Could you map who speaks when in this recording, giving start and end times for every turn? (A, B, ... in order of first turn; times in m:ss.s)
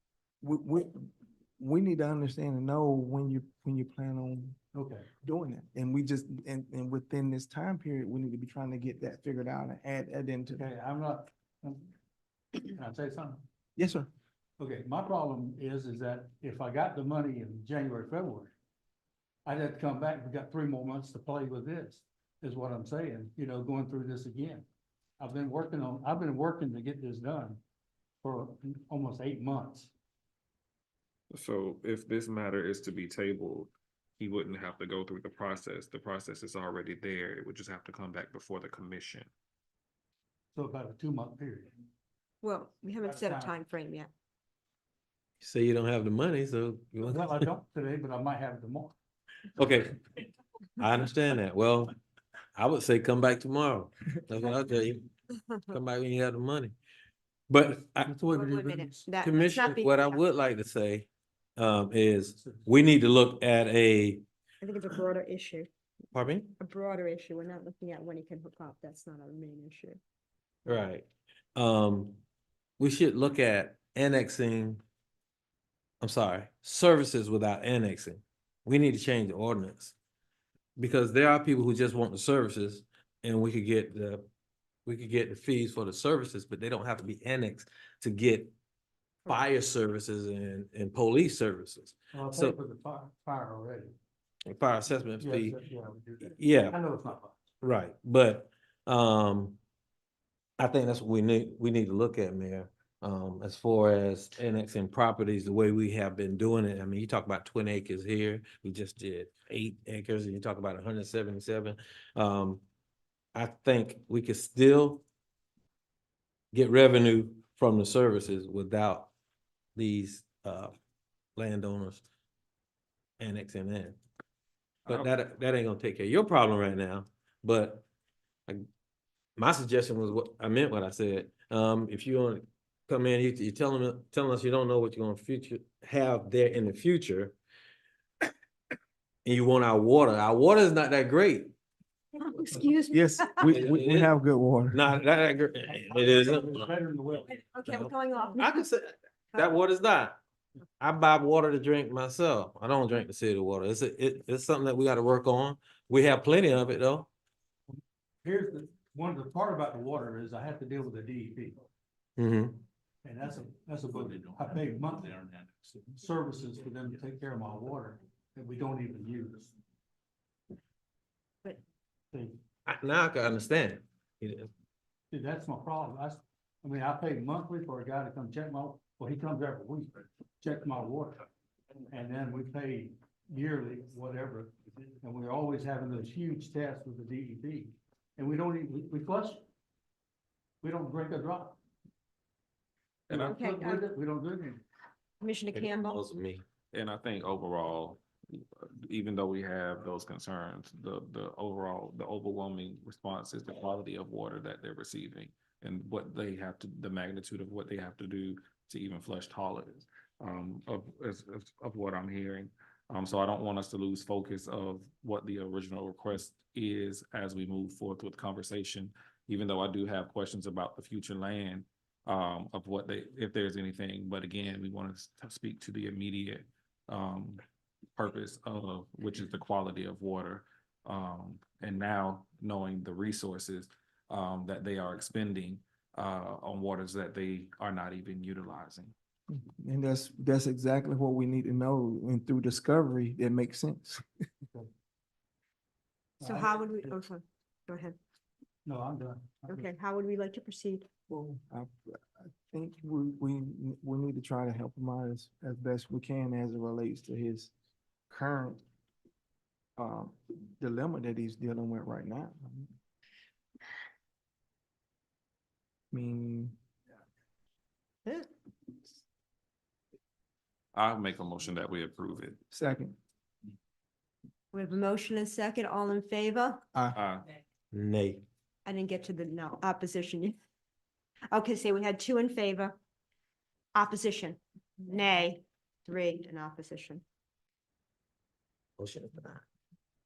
0:00.4-0:04.6 A
0:04.7-0:05.1 B
0:05.2-0:10.7 A
0:10.6-0:11.9 B
0:12.6-0:13.4 B
0:13.8-0:14.1 A
0:14.6-0:18.5 B
0:19.4-0:24.6 B
0:25.2-0:27.6 B
0:28.2-0:29.9 B
0:31.3-0:39.3 C
0:40.5-0:41.7 B
0:42.4-0:44.1 D
0:43.1-0:43.5 B
0:45.4-0:47.4 E
0:47.0-0:48.9 B
0:49.6-0:50.2 E
0:50.8-0:51.9 E
0:52.5-0:55.1 E
0:55.3-0:55.7 D
0:55.7-0:56.7 E
0:57.5-0:58.1 E
0:58.0-0:59.1 B
0:58.3-1:00.2 D
0:59.2-1:04.2 E
1:02.4-1:02.7 B
1:04.6-1:05.7 D
1:06.1-1:06.5 E
1:06.6-1:10.0 D
1:10.6-1:12.2 E
1:12.8-1:14.8 E
1:16.0-1:19.9 E
1:20.8-1:24.3 E
1:24.8-1:28.5 E
1:29.3-1:32.6 E
1:32.1-1:33.9 B
1:34.4-1:35.6 E
1:35.2-1:37.4 B
1:36.2-1:36.8 E
1:37.6-1:39.6 E
1:40.6-1:52.6 E
1:53.3-1:55.0 E
1:56.5-1:59.1 E
1:59.8-2:00.7 E
2:01.4-2:02.0 E
2:03.2-2:04.0 E
2:04.9-2:07.8 E
2:09.4-2:17.4 E
2:19.2-2:21.5 E
2:22.2-2:23.5 D
2:22.9-2:24.8 A
2:23.5-2:24.1 E
2:24.7-2:26.7 E
2:25.7-2:27.4 B
2:27.3-2:28.6 D
2:27.7-2:30.2 E
2:30.8-2:37.1 E
2:38.2-2:41.6 B
2:42.2-2:42.6 E
2:43.0-2:49.5 B
2:52.1-2:52.4 B
2:52.6-2:54.5 E
2:55.1-3:01.2 B
3:01.9-3:09.4 B
3:10.6-3:11.6 B
3:13.1-3:14.6 B
3:13.1-3:13.9 D
3:15.2-3:16.0 D
3:15.5-3:16.4 E
3:16.7-3:47.4 C
3:48.0-3:58.9 C
3:59.3-4:04.0 A
4:06.2-4:06.8 B
4:06.2-4:08.0 D
4:08.6-4:09.6 B
4:09.5-4:10.9 D
4:11.1-4:17.5 A
4:18.1-4:18.6 A
4:19.8-4:22.7 A
4:25.9-4:26.5 A
4:30.7-4:32.4 C
4:32.5-4:33.0 A
4:34.5-4:36.6 D
4:36.7-4:37.0 A
4:36.9-4:37.2 C
4:37.7-4:38.2 E
4:38.6-4:40.4 D
4:41.3-4:42.8 D
4:43.7-4:47.0 D
4:48.8-4:49.4 E